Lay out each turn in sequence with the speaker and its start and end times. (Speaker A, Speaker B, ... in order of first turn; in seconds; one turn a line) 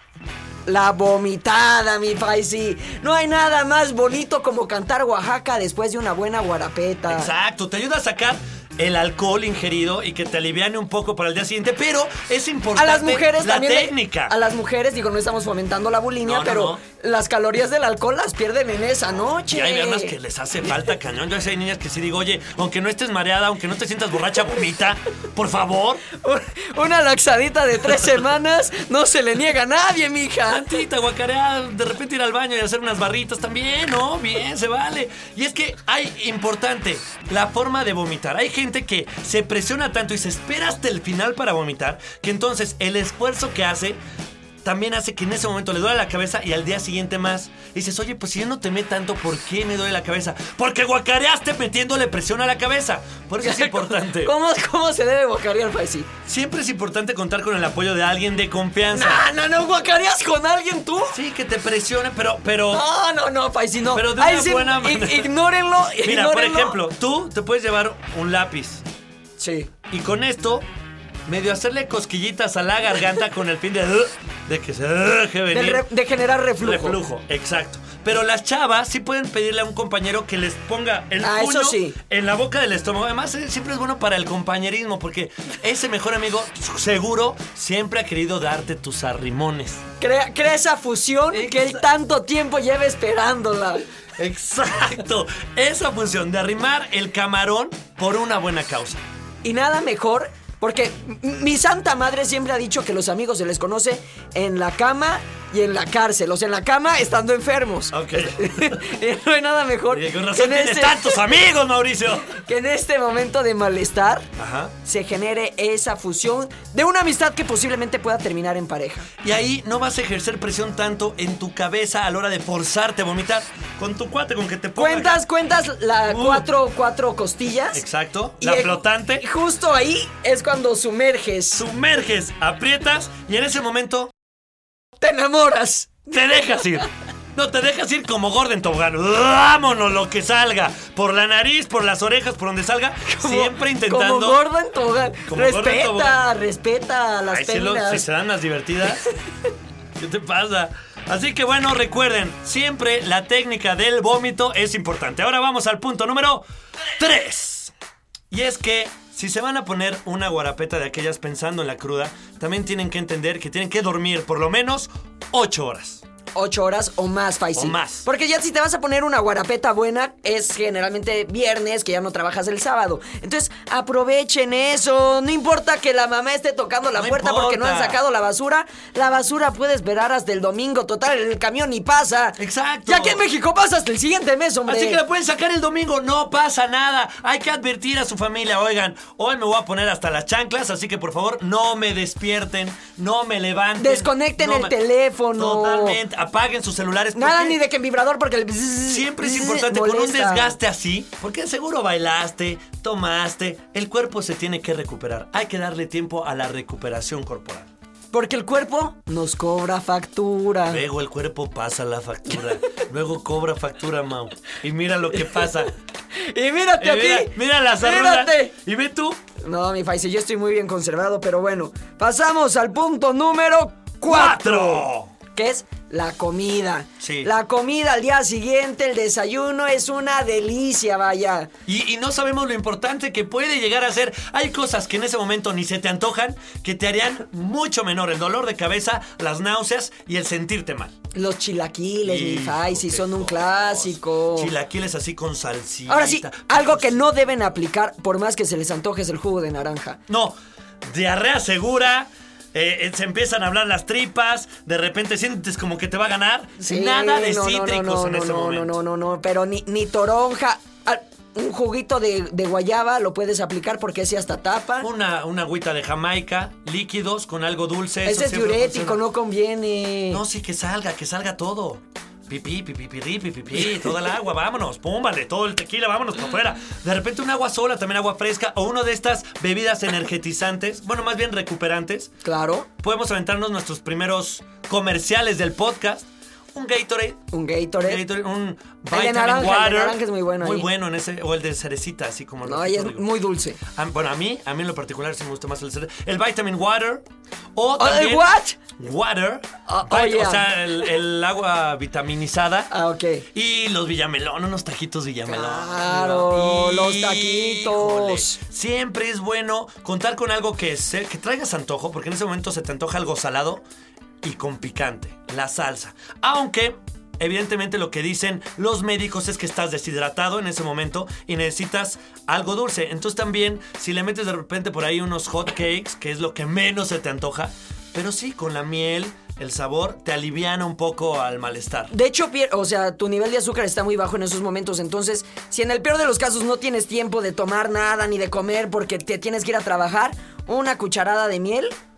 Speaker A: 0.7-7.3
Speaker B: 7.1-14.3
Speaker A: 12.8-20.1
Speaker B: 16.2-16.8
Speaker B: 19.5-26.1
Speaker A: 26.2-30.8
Speaker B: 30.5-44.0
Speaker B: 44.6-54.3
Speaker A: 53.4-56.1
Speaker B: 56.3-59.3
Speaker A: 58.9-61.2
Speaker B: 61.1-62.8
Speaker A: 62.7-66.8
Speaker B: 63.9-65.3
Speaker B: 66.0-68.8
Speaker A: 69.4-69.7
Speaker B: 69.9-70.7
Speaker B: 71.3-75.8
Speaker A: 75.5-77.0
Speaker B: 76.6-89.8
Speaker A: 81.2-82.0
Speaker A: 90.0-93.8
Speaker B: 91.3-91.8
Speaker B: 94.2-99.0
Speaker A: 99.4-111.2
Speaker B: 107.9-108.8
Speaker B: 109.9-112.4
Speaker A: 112.3-114.3
Speaker B: 114.4-114.7
Speaker A: 114.8-119.1
Speaker B: 119.2-125.2
Speaker A: 124.8-127.8
Speaker B: 126.1-126.5
Speaker B: 127.7-129.2
Speaker A: 128.4-131.7
Speaker B: 131.6-134.1
Speaker A: 135.0-136.1
Speaker B: 136.1-144.4
Speaker A: 143.1-148.0
Speaker B: 145.3-146.2
Speaker B: 147.3-149.1
Speaker B: 150.0-156.5
Speaker B: 157.0-157.7
Speaker B: 158.3-166.0
Speaker A: 166.3-185.0
Speaker B: 167.6-168.1
Speaker B: 177.0-178.0
Speaker B: 182.4-183.2
Speaker B: 184.7-194.7
Speaker A: 193.8-196.0
Speaker B: 195.3-197.6
Speaker A: 197.2-200.6
Speaker B: 198.9-207.7
Speaker A: 208.1-210.8
Speaker B: 210.7-215.7
Speaker A: 216.1-218.5
Speaker B: 216.8-219.2
Speaker A: 219.4-231.5
Speaker B: 224.1-225.1
Speaker B: 227.0-227.3
Speaker B: 231.7-240.9
Speaker A: 241.2-244.5
Speaker B: 242.1-246.9
Speaker A: 245.9-250.0
Speaker B: 250.1-258.8
Speaker A: 256.6-264.9
Speaker B: 264.8-269.0
Speaker A: 268.1-270.2
Speaker B: 270.1-282.1
Speaker A: 282.2-282.7
Speaker B: 282.8-287.3
Speaker A: 287.3-288.0
Speaker B: 287.9-293.0
Speaker A: 288.9-290.7
Speaker A: 292.4-293.6
Speaker B: 293.8-297.0
Speaker B: 297.6-298.2
Speaker A: 297.8-298.6
Speaker B: 298.8-302.7
Speaker A: 299.7-300.6
Speaker A: 302.7-303.2
Speaker B: 303.3-313.6
Speaker A: 305.3-308.4
Speaker B: 314.2-331.9
Speaker A: 331.9-341.8